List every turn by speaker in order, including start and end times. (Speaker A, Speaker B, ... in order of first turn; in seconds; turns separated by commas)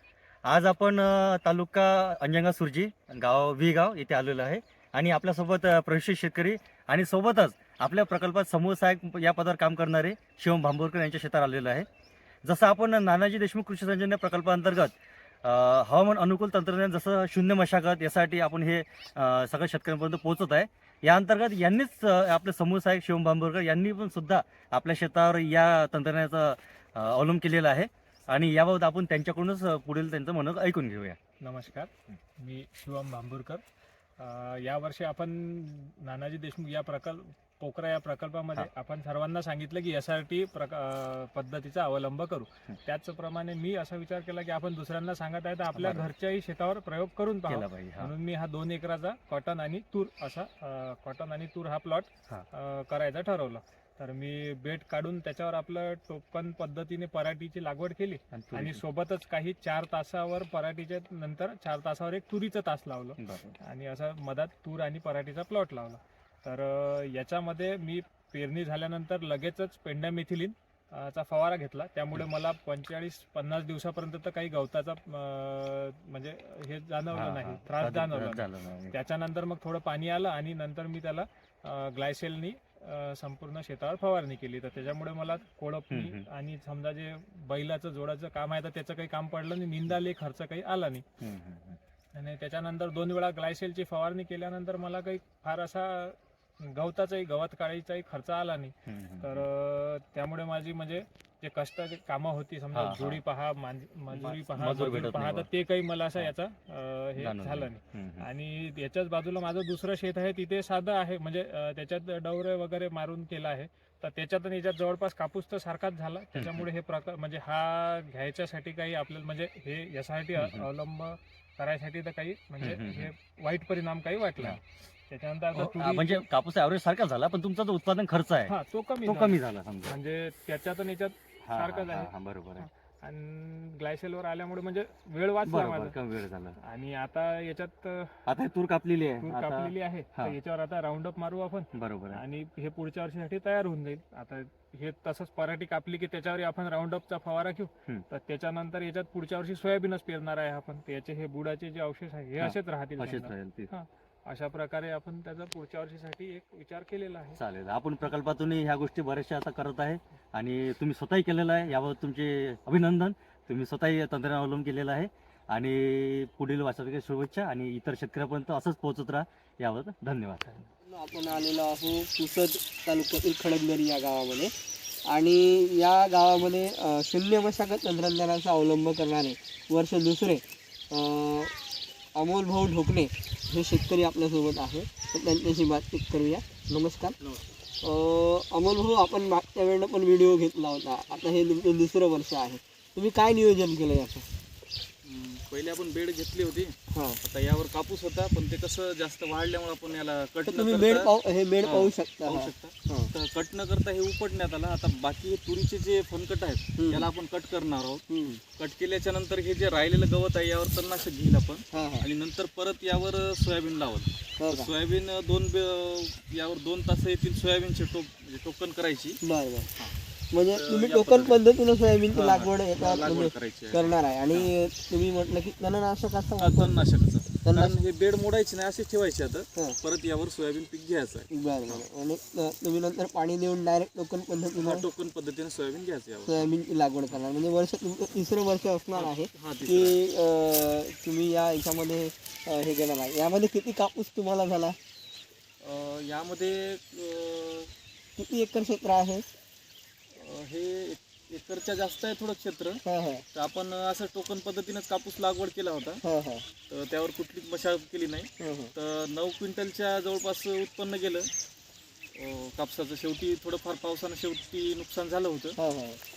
Speaker A: 0.5-11.8, Speaker A: 12.4-31.2, Speaker B: 31.4-33.6, Speaker B: 34.2-91.0, Speaker A: 45.7-46.1, Speaker A: 47.5-48.1, Speaker A: 58.3-58.8, Speaker A: 63.2-63.6, Speaker A: 77.1-79.0, Speaker A: 85.9-86.2, Speaker A: 91.2-91.8, Speaker B: 92.1-126.2, Speaker A: 98.9-99.5, Speaker A: 102.7-103.2, Speaker A: 104.1-105.5, Speaker A: 107.2-108.3, Speaker A: 116.3-116.7, Speaker A: 120.3-120.7, Speaker A: 122.6-123.1, Speaker A: 125.5-129.9, Speaker B: 128.4-136.0, Speaker A: 131.4-132.7, Speaker A: 135.4-136.6, Speaker B: 136.6-138.2, Speaker A: 138.2-140.3, Speaker B: 139.2-157.4, Speaker A: 141.7-142.2, Speaker A: 152.4-153.7, Speaker A: 157.3-170.6, Speaker C: 170.8-174.5, Speaker C: 175.1-181.6, Speaker C: 182.1-187.2, Speaker C: 187.8-194.3, Speaker D: 195.0-201.1, Speaker C: 196.9-197.2, Speaker C: 200.5-203.1, Speaker D: 201.6-208.0, Speaker C: 206.8-207.1, Speaker C: 208.1-208.4, Speaker D: 208.6-219.2, Speaker C: 211.7-212.1, Speaker C: 214.4-214.7, Speaker C: 219.2-219.7, Speaker C: 220.3-226.8, Speaker D: 220.5-221.4, Speaker D: 222.1-224.5, Speaker D: 226.4-231.8, Speaker C: 227.4-227.8, Speaker C: 231.3-234.9, Speaker D: 234.6-236.5, Speaker C: 236.2-244.8, Speaker D: 238.9-240.0, Speaker D: 245.6-247.7, Speaker C: 248.2-249.2, Speaker D: 250.1-252.8, Speaker C: 252.8-253.2, Speaker D: 253.3-256.0, Speaker C: 256.0-256.4, Speaker D: 256.7-261.3, Speaker C: 258.4-258.7, Speaker D: 262.1-265.6, Speaker C: 265.6-266.0